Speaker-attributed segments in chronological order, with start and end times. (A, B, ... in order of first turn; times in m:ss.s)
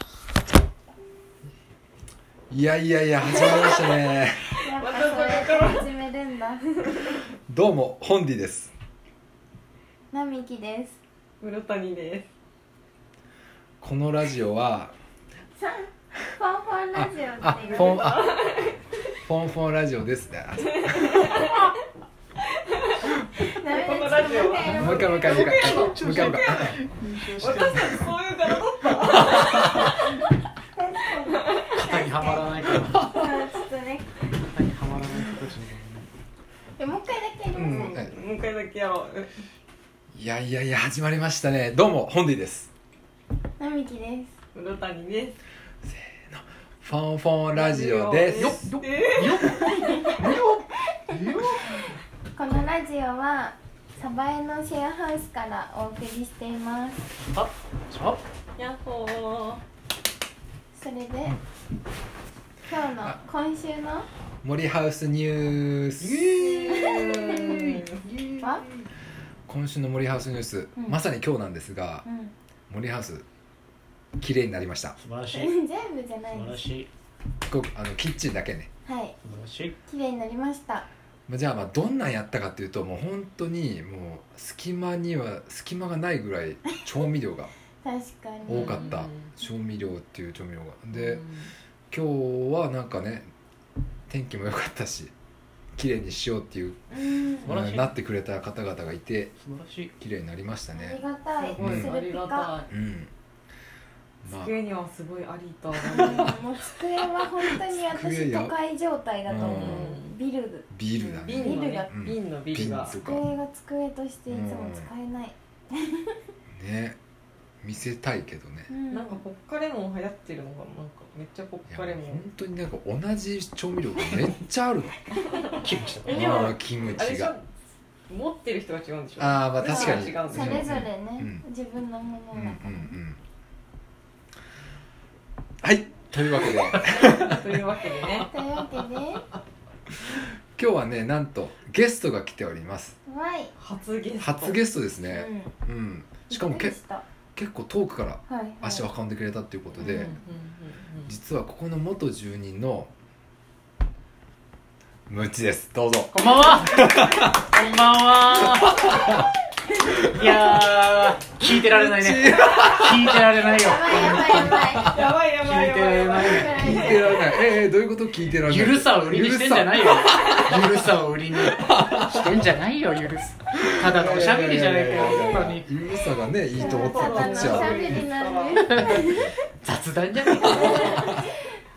0:02.5-0:04.4 A
0:04.6-0:05.9 B
0:04.6-0:06.8 C
0:07.5-0:08.7 A
0:10.1-0:11.0 C
0:11.4-0:12.3 B
0:13.8-0:14.9 A
0:15.6-0:18.3 C
0:16.9-0:18.3 A
0:17.6-0:18.7 B
0:19.2-0:21.5 A
0:20.7-0:21.7 B
0:22.7-0:26.7 B
0:23.4-0:25.9 C
0:24.6-0:26.8 A
0:25.3-0:28.1 D
0:27.4-0:30.0 B
0:29.1-0:30.0 A
0:30.8-0:34.2 C
0:31.2-0:32.0 B
0:31.8-0:33.2 D
0:34.5-0:36.1 D
0:36.8-0:38.1 C
0:37.5-0:38.1 A
0:37.6-0:39.4 B
0:40.1-0:42.7 A
0:43.6-0:44.3 C
0:44.5-0:45.4 B
0:45.8-0:48.6 A
0:47.5-0:49.7 B
0:48.4-0:51.8 D
0:49.9-0:50.3 C
0:52.3-0:57.1 C
0:57.3-0:58.2 D
0:58.6-0:59.6 B
1:00.7-1:01.4 C
1:02.7-1:04.1 C
1:04.4-1:06.3 A
1:06.0-1:08.6 D
1:06.3-1:08.0 B
1:06.6-1:07.7 C
1:09.5-1:12.0 A
1:12.0-1:12.3 C
1:12.7-1:13.2 A
1:14.2-1:15.0 A
1:15.0-1:15.6 D
1:15.3-1:16.6 C
1:16.3-1:16.9 D
1:17.5-1:18.7 A
1:18.8-1:19.2 C
1:19.2-1:19.8 D
1:19.9-1:20.9 C
1:21.3-1:27.5 A
1:27.8-1:29.0 C
1:28.4-1:31.2 A
1:28.5-1:29.3 B
1:30.9-1:31.5 B
1:31.9-1:33.3 A
1:34.1-1:35.1 A
1:35.8-1:36.8 A
1:36.9-1:37.5 C
1:37.4-1:37.9 D
1:37.4-1:39.3 A
1:39.4-1:39.9 D
1:40.0-1:41.0 A
1:40.7-1:42.5 C
1:41.4-1:42.7 B
1:41.6-1:41.9 A
1:42.7-1:43.1 A
1:44.2-1:44.5 A
1:44.2-1:46.4 B
1:45.8-1:46.4 A
1:45.9-1:50.7 C
1:47.4-1:48.5 A
1:49.2-1:49.9 A
1:49.4-1:50.2 B
1:50.7-1:53.3 A
1:51.0-1:53.0 B
1:51.3-1:51.9 C
1:53.0-1:56.2 C
1:54.3-1:54.9 A
1:56.6-1:57.0 A
1:57.6-1:58.7 A
1:58.7-1:59.2 C
1:58.9-2:02.2 B
2:01.7-2:04.9 A
2:05.5-2:07.4 B
2:05.6-2:06.3 D
2:06.1-2:07.3 A
2:08.1-2:10.7 B
2:09.2-2:11.4 A
2:09.6-2:13.0 C
2:12.3-2:13.2 A
2:15.6-2:17.4 A
2:16.8-2:18.3 B
2:18.3-2:19.2 C
2:20.6-2:23.0 A
2:23.1-2:23.5 C
2:23.6-2:24.6 B
2:24.2-2:26.8 A
2:25.0-2:25.5 C
2:26.3-2:27.0 C
2:27.3-2:30.1 A
2:28.3-2:28.9 C
2:29.8-2:31.1 B
2:31.1-2:32.9 A
2:35.1-2:37.5 A
2:36.1-2:39.2 D
2:38.3-2:39.3 A
2:39.8-2:44.9 A
2:40.0-2:47.0 D
2:43.5-2:45.0 C
2:44.4-2:47.0 B
2:46.1-2:47.3 C
2:46.5-2:52.4 A
2:48.4-2:55.7 D
2:53.5-2:58.1 A
2:56.5-2:59.3 C
2:56.6-2:58.9 B
2:58.7-3:01.1 D
2:58.8-2:59.3 A
3:00.4-3:01.5 C
3:00.5-3:00.9 B
3:00.8-3:01.2 A